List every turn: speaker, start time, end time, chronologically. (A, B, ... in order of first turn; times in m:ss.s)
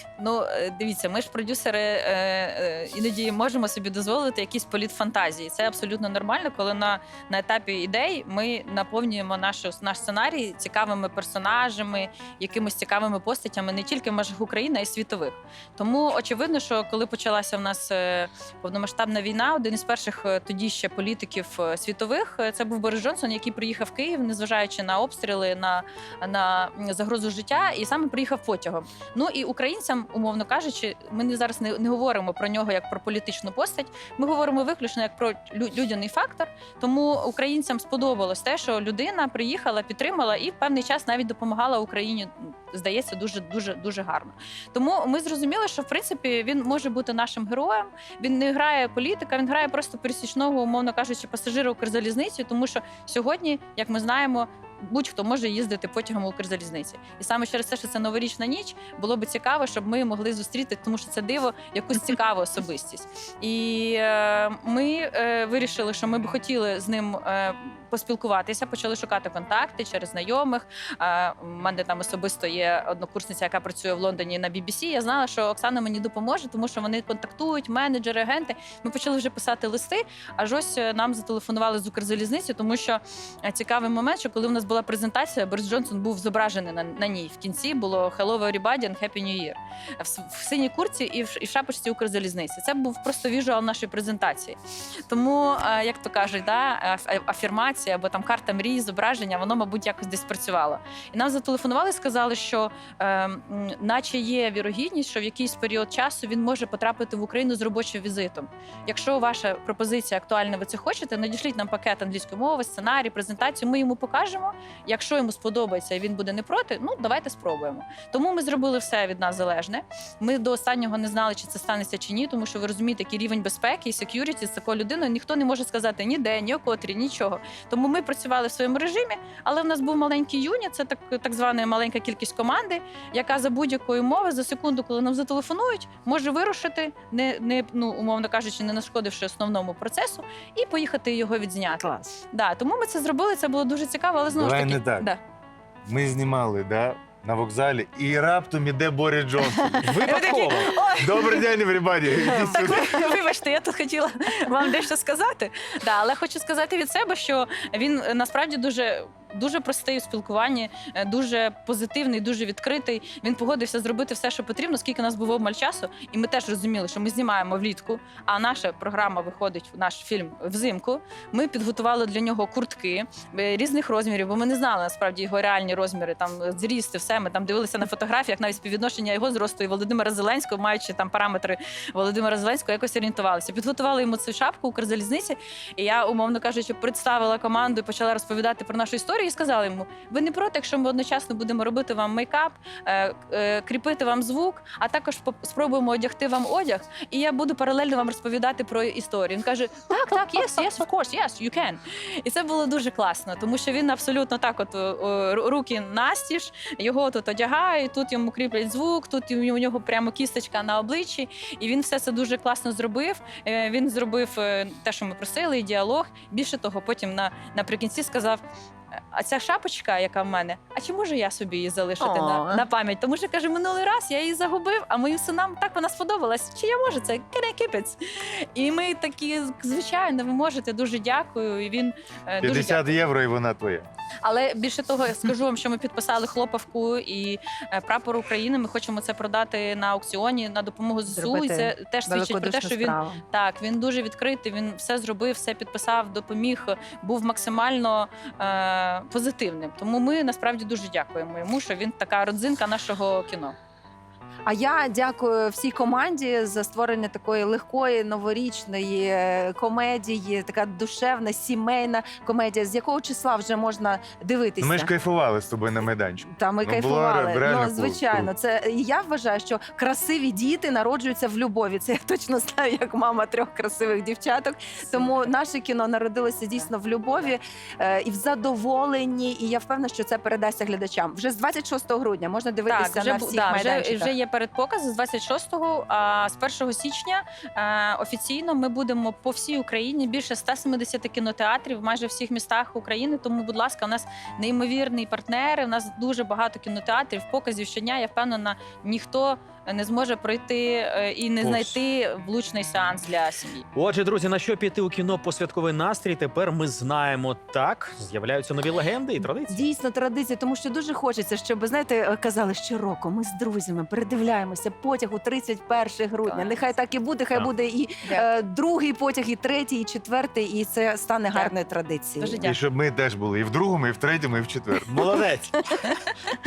0:00.2-2:25.2 A
2:21.8-2:22.1 B
2:24.3-2:25.1 C
2:25.9-2:29.9 C
2:29.6-2:30.7 B
2:29.8-2:30.7 D
2:30.0-2:31.3 A
2:31.0-2:33.0 C
2:32.2-2:32.5 B
2:32.4-3:38.4 A
3:39.1-3:53.0 A
3:42.0-3:42.6 B
3:52.4-3:53.9 C
3:54.2-4:13.6 A
4:01.1-4:03.2 B
4:14.5-4:24.9 B
4:24.6-4:28.3 C
4:26.2-4:44.1 B
4:34.9-4:35.3 A
4:36.6-4:37.3 A
4:42.7-5:03.6 A
5:01.4-5:01.8 D
5:03.8-5:09.7 D
5:09.5-5:22.4 B
5:16.2-5:16.8 A
5:18.0-5:18.3 A
5:21.3-5:21.6 A
5:22.2-5:22.6 A
5:22.4-5:24.9 C
5:24.9-5:25.5 D
5:25.0-5:25.2 B
5:25.8-5:26.1 A